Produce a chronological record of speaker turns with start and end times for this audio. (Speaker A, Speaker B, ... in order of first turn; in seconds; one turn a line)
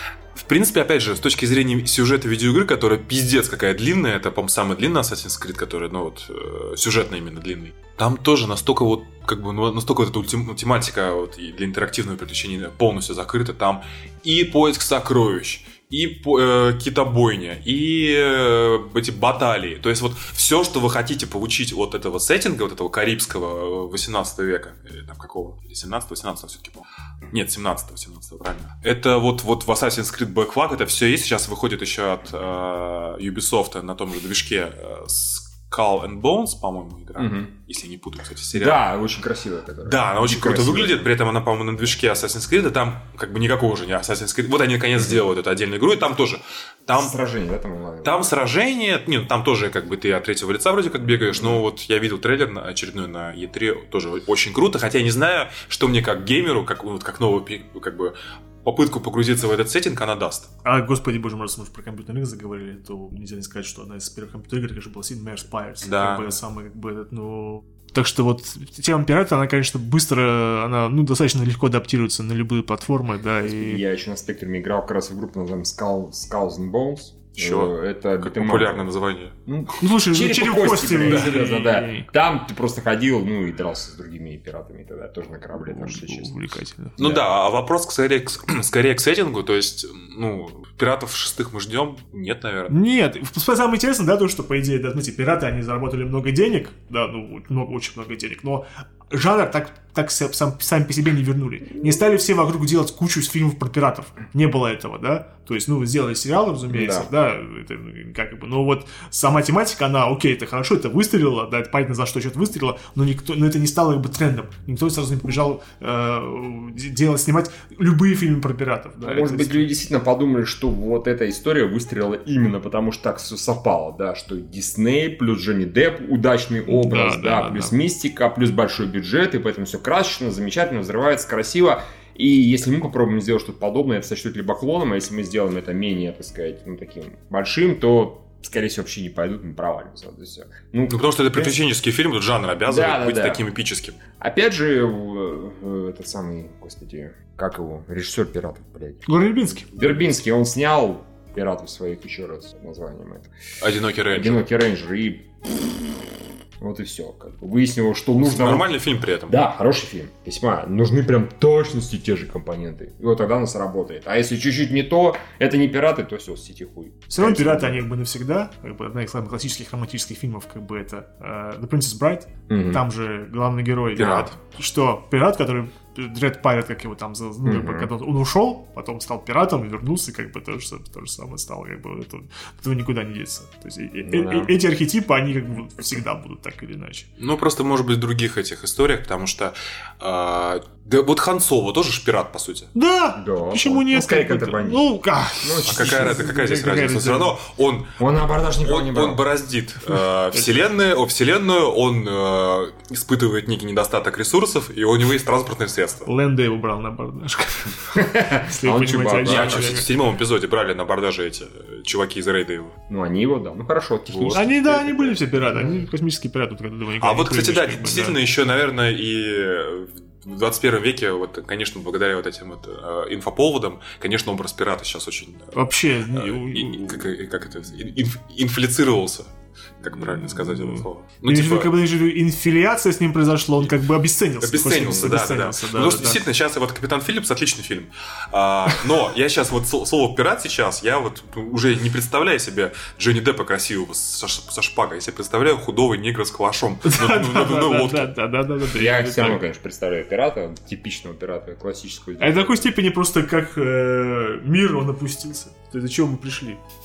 Speaker A: 0.3-38.8
Speaker B: 37.2-37.5
Speaker B: 38.5-41.1
Speaker A: 39.8-47.2
Speaker B: 47.0-48.3
Speaker A: 48.0-60.5
Speaker B: 51.1-51.6
Speaker C: 60.6-73.8
Speaker A: 65.8-66.3
Speaker B: 73.5-78.8
Speaker A: 77.4-79.3
Speaker B: 79.5-86.3
Speaker C: 79.8-82.1
Speaker C: 85.5-87.0
Speaker B: 87.0-87.2
Speaker A: 87.0-92.8
Speaker C: 92.7-119.7
Speaker B: 106.7-107.1
Speaker B: 119.0-141.6
Speaker C: 126.7-127.7
Speaker A: 140.9-144.0
Speaker B: 142.7-143.4
Speaker B: 144.2-153.3
Speaker C: 149.1-149.7
Speaker A: 153.6-154.4
Speaker B: 154.1-158.7
Speaker A: 158.2-159.4
Speaker B: 159.3-167.8
Speaker C: 167.1-187.1
Speaker B: 172.5-172.8
Speaker B: 173.9-174.3
Speaker B: 177.4-177.9
Speaker B: 184.1-184.5
Speaker A: 187.2-192.7
Speaker C: 192.8-197.3
Speaker B: 193.2-194.9
Speaker B: 195.4-196.3
Speaker A: 195.7-198.0
Speaker B: 198.0-199.2
Speaker A: 198.6-206.1
Speaker C: 206.1-209.9
Speaker B: 207.9-209.8
Speaker A: 209.2-212.8
Speaker B: 212.9-215.9
Speaker A: 214.1-214.4
Speaker C: 214.3-218.2
Speaker A: 217.0-225.6
Speaker C: 225.5-227.0
Speaker A: 226.1-231.7
Speaker C: 230.0-236.2
Speaker A: 234.4-248.1
Speaker C: 246.8-249.4
Speaker B: 248.7-252.7
Speaker C: 252.2-256.6